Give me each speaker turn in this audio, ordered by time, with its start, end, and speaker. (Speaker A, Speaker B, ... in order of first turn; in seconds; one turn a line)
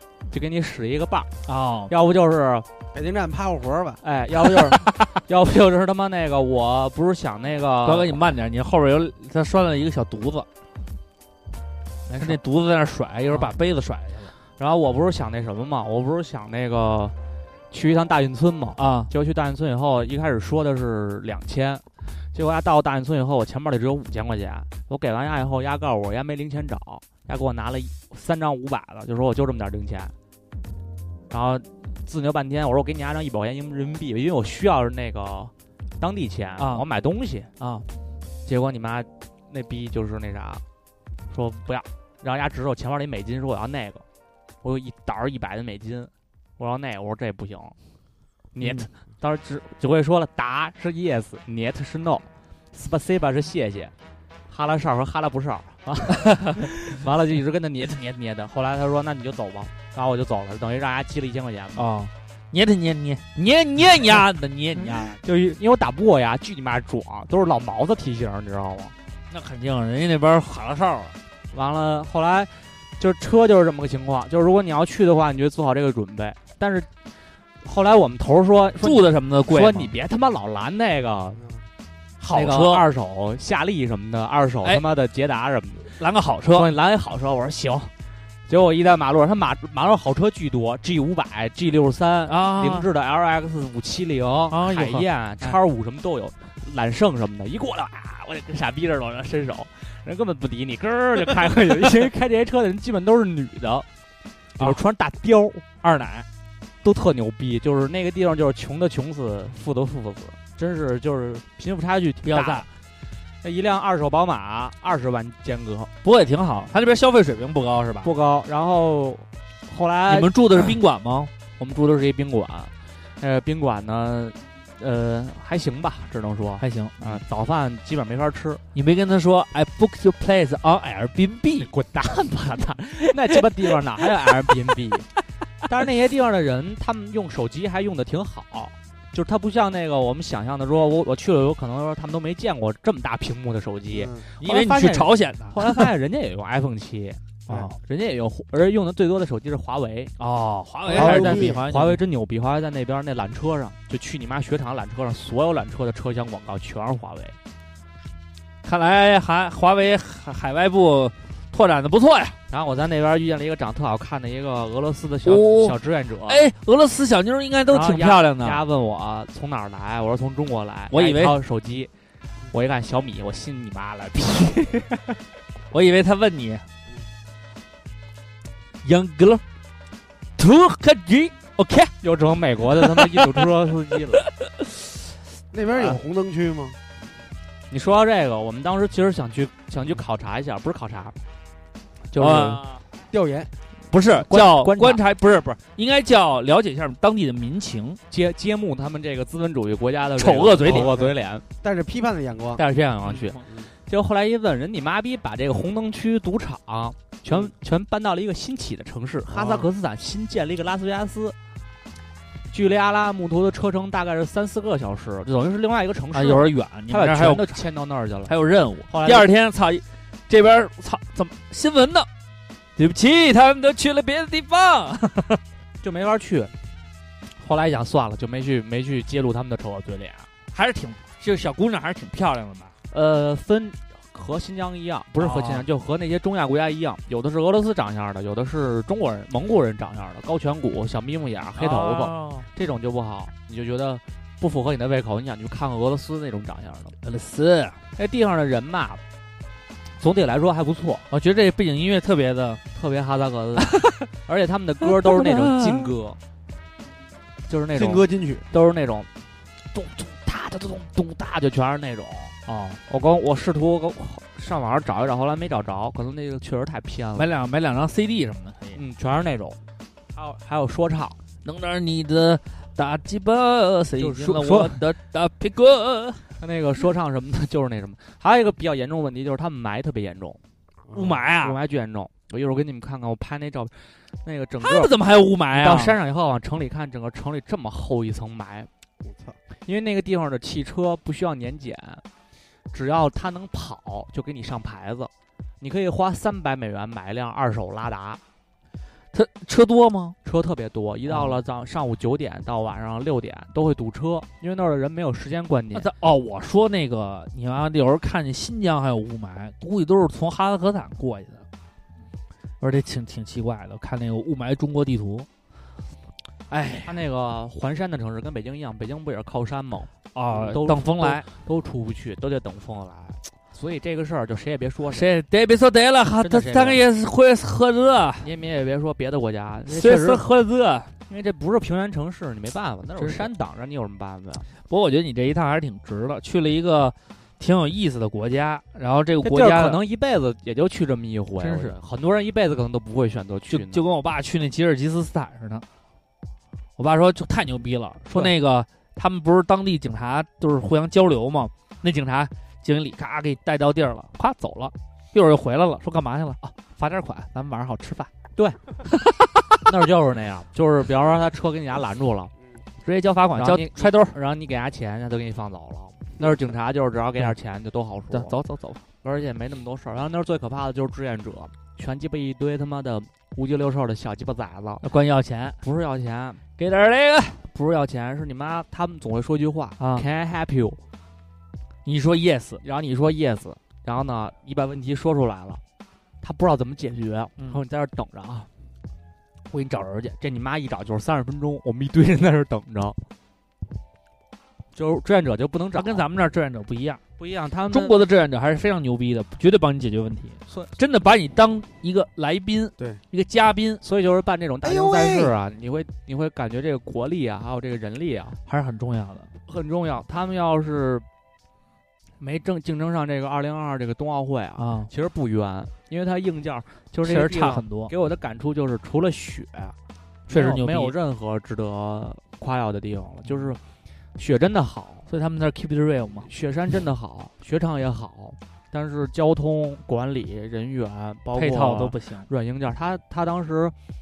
Speaker A: 0.3-1.3
Speaker B: 1.5-1.9
Speaker A: 1.9-2.7
Speaker C: 2.9-4.0
Speaker A: 4.0-8.2
Speaker B: 7.8-10.5
Speaker A: 12.1-12.4
Speaker B: 12.2-14.3
Speaker A: 13.3-13.5
Speaker A: 14.6-17.1
Speaker A: 17.7-30.1
Speaker B: 18.8-19.1
Speaker A: 31.3-37.5
Speaker B: 36.6-36.8
Speaker B: 37.6-37.9
Speaker A: 38.5-40.6
Speaker A: 41.3-44.0
Speaker A: 44.6-47.7
Speaker A: 48.5-53.9
Speaker B: 48.6-48.9
Speaker A: 54.5-61.8
Speaker B: 61.8-65.2
Speaker A: 64.8-68.9
Speaker B: 69.3-71.2
Speaker A: 71.5-76.9
Speaker A: 77.6-81.4
Speaker B: 78.8-79.9
Speaker C: 81.3-81.6
Speaker A: 82.2-86.0
Speaker B: 82.3-82.8
Speaker B: 86.0-86.7
Speaker A: 86.5-87.9
Speaker A: 88.5-103.8
Speaker B: 92.3-92.8
Speaker B: 94.5-95.6
Speaker A: 104.6-105.6
Speaker B: 105.8-106.2
Speaker A: 106.8-112.7
Speaker B: 112.2-112.7
Speaker A: 113.4-115.9
Speaker B: 116.0-118.1
Speaker A: 118.0-120.8
Speaker B: 120.1-121.3
Speaker A: 121.6-128.6
Speaker B: 126.6-127.2
Speaker B: 128.7-131.7
Speaker A: 131.6-135.1
Speaker A: 135.6-147.2
Speaker C: 143.9-144.2
Speaker B: 144.4-145.9
Speaker B: 147.5-147.8
Speaker A: 147.8-150.1
Speaker B: 150.2-152.0
Speaker C: 150.9-151.6
Speaker A: 150.9-157.3
Speaker B: 158.6-162.4
Speaker A: 162.5-166.4
Speaker B: 165.2-168.6
Speaker A: 167.7-171.9
Speaker B: 170.9-171.4
Speaker A: 172.5-175.0
Speaker B: 175.7-176.6
Speaker B: 178.8-179.4
Speaker B: 180.4-181.9
Speaker A: 182.0-184.2
Speaker B: 183.0-183.4
Speaker C: 185.5-186.8
Speaker A: 187.7-191.1
Speaker A: 192.1-192.6
Speaker B: 192.2-192.8
Speaker C: 193.1-193.5
Speaker B: 193.9-198.0
Speaker A: 194.1-195.0
Speaker A: 198.1-201.4
Speaker B: 200.2-200.9
Speaker C: 200.6-202.6
Speaker A: 202.6-211.3
Speaker B: 203.1-203.4
Speaker C: 209.3-209.7
Speaker A: 212.5-218.3
Speaker B: 216.1-217.6
Speaker B: 218.3-222.1
Speaker A: 218.9-219.3
Speaker B: 222.8-225.4
Speaker A: 225.8-226.5
Speaker A: 227.4-230.3
Speaker B: 230.5-232.7
Speaker A: 232.9-246.9
Speaker B: 235.2-235.6
Speaker B: 241.6-242.5
Speaker B: 247.0-247.8
Speaker A: 247.9-249.0
Speaker A: 250.0-251.1
Speaker B: 251.1-252.6
Speaker A: 252.7-256.2
Speaker B: 253.7-254.0
Speaker B: 254.8-255.9
Speaker A: 257.5-259.1
Speaker C: 257.7-258.4
Speaker A: 259.7-262.3
Speaker B: 262.5-262.8
Speaker A: 262.9-267.3
Speaker B: 267.1-268.8
Speaker A: 268.8-269.6
Speaker A: 270.1-271.2
Speaker B: 271.4-276.3
Speaker A: 274.0-274.8
Speaker A: 276.4-280.4
Speaker C: 280.9-281.2
Speaker B: 280.9-281.6
Speaker A: 281.2-284.9
Speaker B: 284.6-285.9
Speaker A: 285.5-288.7
Speaker C: 289.0-289.4
Speaker A: 289.6-292.0
Speaker A: 292.7-298.2
Speaker B: 299.1-300.1
Speaker A: 300.2-305.9
Speaker B: 301.1-301.4
Speaker B: 305.7-311.4
Speaker B: 312.6-315.3
Speaker B: 316.5-316.9
Speaker A: 316.8-325.1
Speaker B: 320.1-321.2
Speaker B: 324.9-328.3
Speaker A: 326.2-326.8
Speaker A: 328.2-330.3
Speaker B: 329.7-330.9
Speaker A: 331.1-334.4
Speaker B: 333.0-333.3
Speaker B: 334.7-339.8
Speaker A: 339.2-343.8
Speaker B: 341.4-341.8
Speaker B: 343.5-345.6
Speaker B: 346.8-358.1
Speaker A: 354.2-354.7
Speaker A: 359.6-362.3
Speaker B: 362.8-364.1
Speaker A: 363.4-368.3
Speaker B: 368.1-368.8
Speaker A: 369.0-374.9
Speaker B: 374.8-375.6
Speaker A: 375.6-376.4
Speaker B: 376.6-377.9
Speaker A: 377.9-380.8
Speaker B: 379.8-380.0
Speaker B: 381.8-382.6
Speaker A: 382.6-385.6
Speaker A: 386.2-388.5
Speaker B: 389.5-390.2
Speaker A: 390.2-393.0
Speaker A: 394.7-396.1
Speaker B: 395.8-397.0
Speaker A: 397.2-398.0
Speaker B: 397.7-403.8
Speaker A: 403.8-408.4
Speaker C: 404.6-405.3
Speaker B: 408.5-409.3
Speaker A: 409.5-411.0
Speaker A: 412.2-419.7
Speaker B: 414.6-414.9
Speaker B: 417.0-417.9
Speaker B: 420.3-420.9
Speaker A: 420.3-423.6
Speaker A: 424.1-425.1
Speaker B: 425.1-426.3
Speaker A: 426.3-433.7
Speaker B: 431.3-432.3